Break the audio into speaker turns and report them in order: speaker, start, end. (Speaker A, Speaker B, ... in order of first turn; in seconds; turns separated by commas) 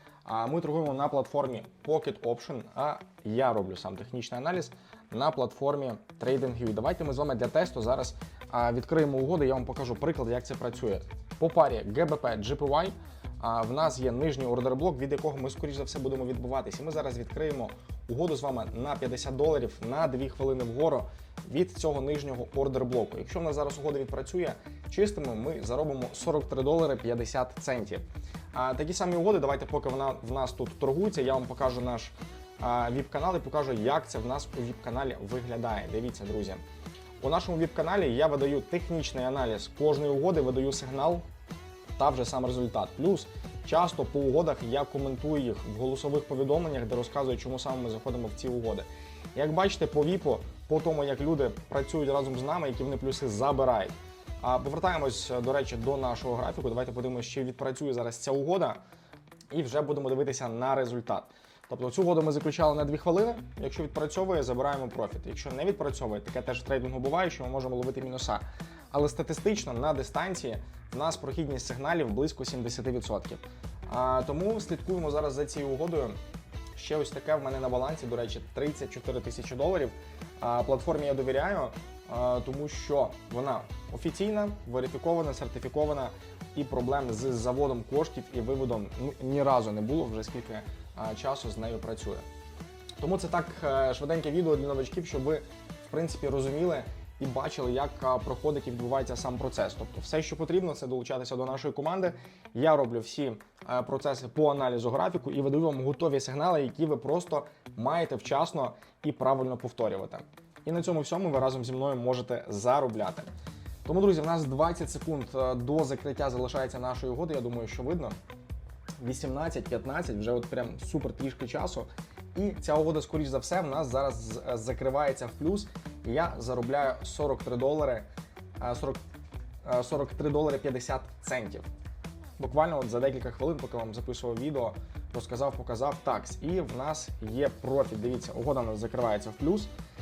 Speaker A: 0.2-36.6, Speaker A: 37.2-41.2, Speaker A: 42.0-58.8, Speaker A: 59.5-76.2, Speaker A: 76.8-92.2, Speaker A: 93.0-113.3, Speaker A: 113.8-118.2, Speaker A: 119.0-128.1, Speaker A: 128.6-129.0, Speaker A: 129.6-131.7, Speaker A: 132.4-139.7